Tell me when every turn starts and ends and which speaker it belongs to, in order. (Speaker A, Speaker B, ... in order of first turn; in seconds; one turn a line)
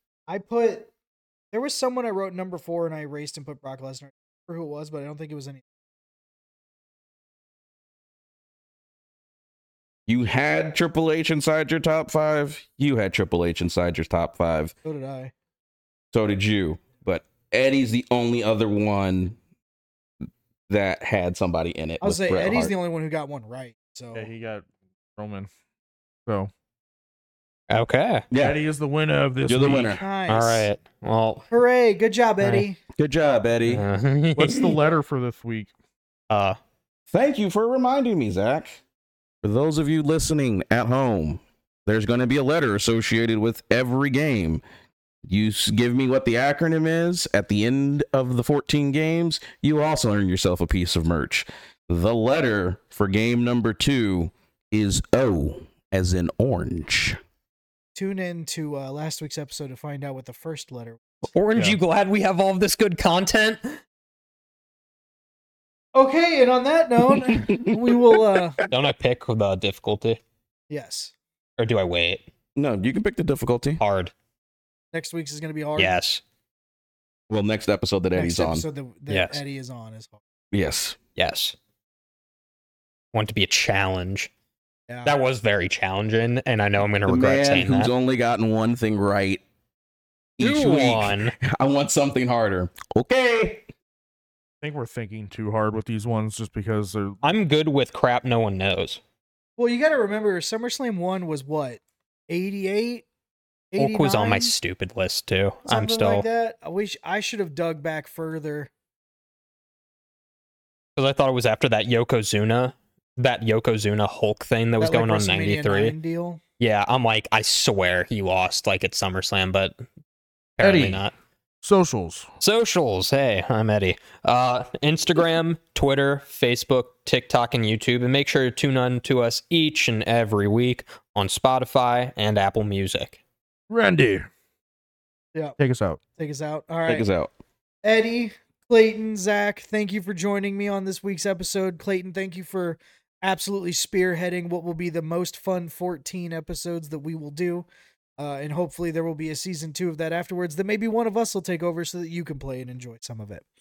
Speaker A: 0.3-0.9
Speaker A: 1.5-5.6
Speaker B: 10.1-14.7
Speaker A: 14.8-15.3
Speaker B: 16.1-19.4
Speaker B: 20.7-22.7
Speaker A: 22.0-24.3
Speaker C: 24.1-25.5
Speaker D: 27.7-28.3
Speaker B: 28.3-28.6
Speaker C: 28.4-29.9
Speaker B: 29.4-30.0
Speaker A: 29.8-30.7
Speaker D: 30.3-31.5
Speaker A: 31.5-32.8
Speaker D: 32.4-32.7
Speaker B: 33.0-33.8
Speaker D: 33.6-34.8
Speaker C: 34.4-35.7
Speaker D: 36.3-36.6
Speaker B: 37.1-38.8
Speaker B: 39.4-44.6
Speaker B: 45.2-57.2
Speaker A: 57.9-61.0
Speaker D: 61.3-63.8
Speaker A: 65.9-68.6
Speaker B: 67.3-68.9
Speaker D: 68.7-70.2
Speaker A: 70.7-71.1
Speaker D: 71.6-72.2
Speaker B: 72.5-73.8
Speaker D: 73.8-74.1
Speaker A: 74.9-76.0
Speaker D: 75.8-76.2
Speaker B: 77.3-78.6
Speaker A: 78.1-80.2
Speaker D: 79.1-79.4
Speaker B: 80.5-81.0
Speaker D: 81.2-81.5
Speaker D: 83.1-84.3
Speaker A: 84.9-85.2
Speaker D: 85.0-87.9
Speaker B: 87.1-89.4
Speaker B: 90.4-93.6
Speaker D: 90.4-91.3
Speaker C: 94.6-97.2
Speaker D: 97.2-99.0
Speaker A: 99.6-103.0
Speaker A: 103.7-104.5
Speaker D: 103.8-106.2
Speaker A: 105.7-108.7
Speaker D: 111.0-115.9
Speaker A: 114.8-116.4
Speaker D: 116.6-119.8
Speaker D: 120.6-121.1
Speaker C: 120.6-121.0
Speaker C: 121.6-122.3
Speaker D: 122.4-133.2
Speaker C: 133.7-134.3
Speaker C: 135.6-136.0
Speaker A: 136.2-137.1
Speaker B: 136.9-137.3
Speaker A: 137.8-147.7
Speaker A: 148.2-153.4